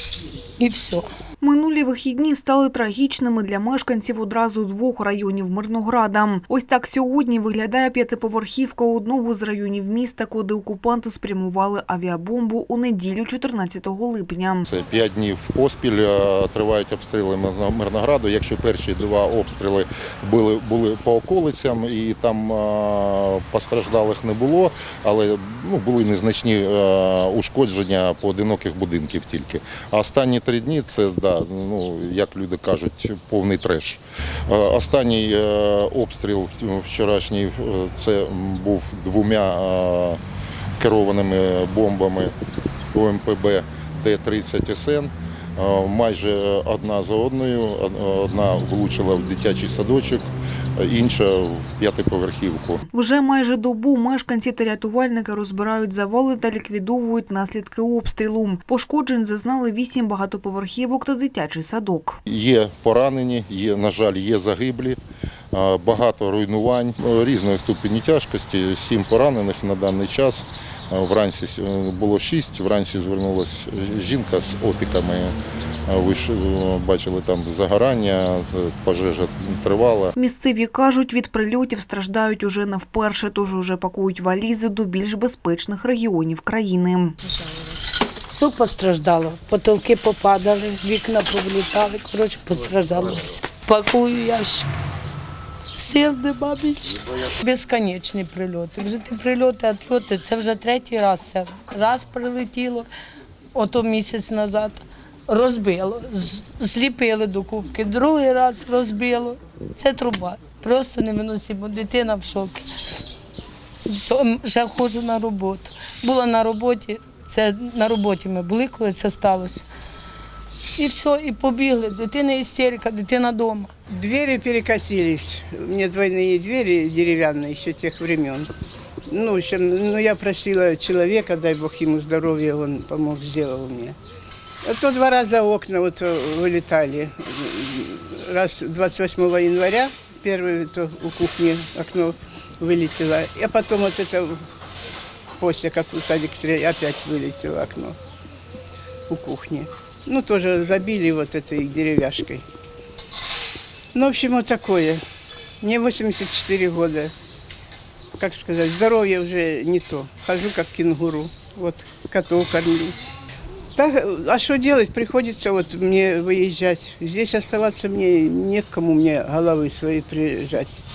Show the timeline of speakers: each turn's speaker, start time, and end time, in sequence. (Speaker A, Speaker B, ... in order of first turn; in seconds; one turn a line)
Speaker A: 0.6-1.1
Speaker B: 1.4-14.7
Speaker C: 14.7-40.2
Speaker C: 40.8-42.3
Speaker C: 42.9-50.3
Speaker C: 50.8-52.8
Speaker B: 52.9-62.2
Speaker C: 62.3-65.0
Speaker C: 65.5-75.3
Speaker C: 75.9-80.1
Speaker B: 80.2-87.1
Speaker A: 88.3-94.7
Speaker A: 95.7-102.9
Speaker A: 103.5-112.7
Speaker A: 113.8-119.6
Speaker A: 120.7-123.7
Speaker D: 123.9-128.5
Speaker D: 129.1-133.9
Speaker D: 134.6-144.4
Speaker D: 145.4-147.9
Speaker D: 149.1-152.4
Speaker D: 153.9-155.0
Speaker D: 155.6-157.1
Speaker D: 158.2-162.9
Speaker D: 163.7-170.8